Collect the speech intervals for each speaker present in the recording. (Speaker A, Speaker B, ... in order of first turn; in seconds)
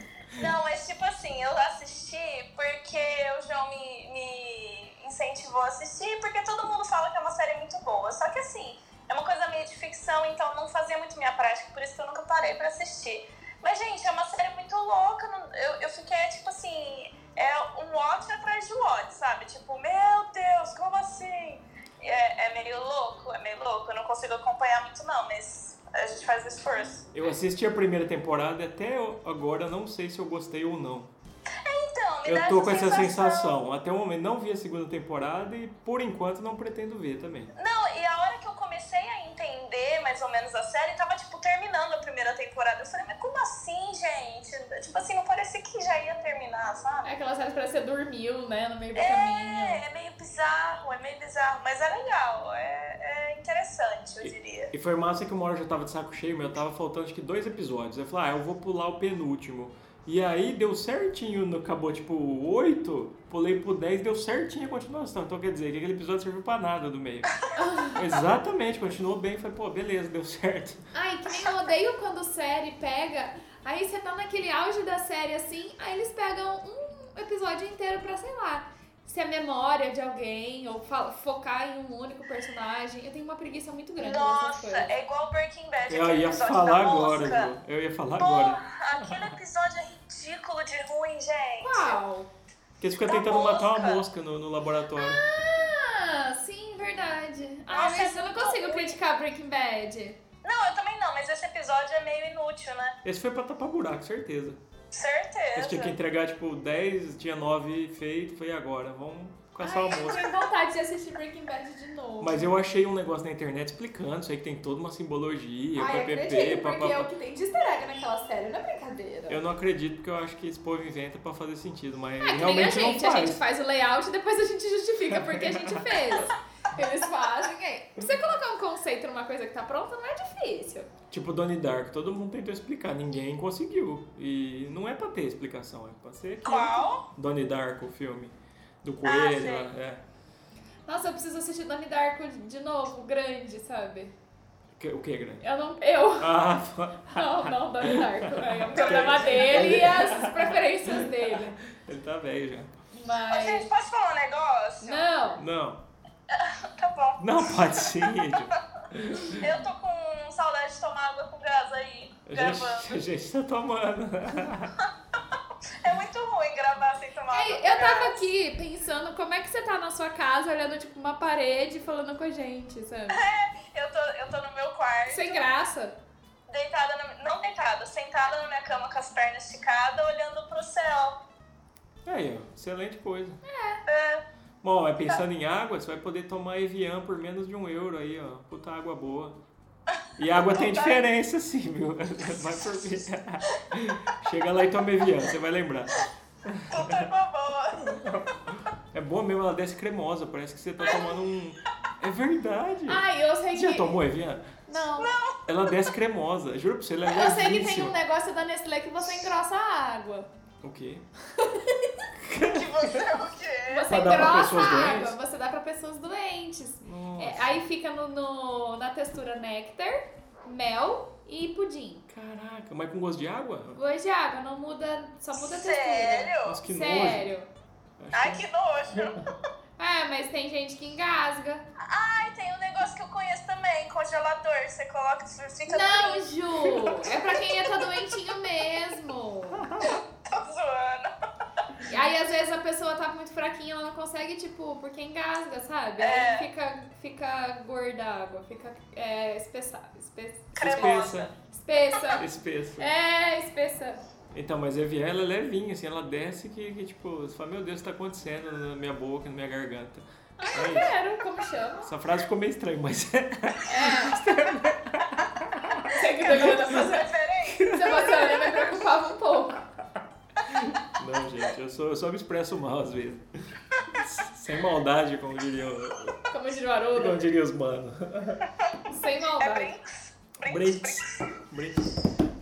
Speaker A: 0.3-27.1, 31.6-33.5, 37.5-47.1, 48.9-54.7, 84.0-87.5, 88.1-92.0, 93.1-94.0, 97.7-99.0, 100.4-103.0, 104.9-105.9, 136.4-137.0, 139.0-139.7, 148.7-149.6, 153.3-155.1, 156.3-157.2, 159.3-163.0, 165.8-168.2, 173.1-175.4, 176.5-181.2, 183.8-184.2, 190.5-191.0, 196.7-198.0, 200.8-201.1, 205.0-205.7, 212.5-214.2, 225.4-226.6, 228.1-229.2, 231.8-237.9, 239.8-241.1, 246.0-246.5, 250.6-251.3, 266.3-268.8, 279.4-281.2
Speaker B: 27.1-31.1, 32.2-37.5, 54.2-70.8, 85.9-89.2, 92.8-95.2, 103.0-104.6, 105.5-110.3, 112.2-117.1, 119.3-123.4, 125.1-126.2, 131.1-140.0, 144.8-145.4, 146.2-152.7, 155.4-155.8, 157.2-159.5, 162.3-164.7, 182.1-183.4, 184.6-189.3, 190.2-197.1, 197.8-204.5, 205.4-207.9, 210.6-211.1, 212.1-213.1, 213.9-215.1, 216.8-217.5, 222.1-223.8, 226.4-227.2, 228.0-228.4, 250.6-251.3, 252.2-252.9, 254.3-260.9, 261.8-266.8, 267.4-268.3, 270.4-273.2, 273.9-276.2, 276.9-278.4, 280.4-282.0
Speaker C: 47.0-49.8, 67.5-68.0, 70.9-84.9, 91.6-92.3, 95.0-100.2, 109.6-112.5, 115.8-119.4, 122.2-130.9, 140.9-144.1, 145.4-146.3, 147.1-151.6, 152.9-153.7, 154.8-155.4, 167.3-173.2, 175.1-175.9, 183.4-183.8, 202.9-204.0, 204.7-205.1, 207.1-210.3, 211.4-212.0, 213.7-222.1, 223.7-227.5, 229.8-231.6, 235.7-239.8, 241.8-252.2, 252.8-254.0, 260.4-261.9, 263.6-264.2, 265.9-267.1, 267.7-269.6, 276.3-277.2, 278.9-279.7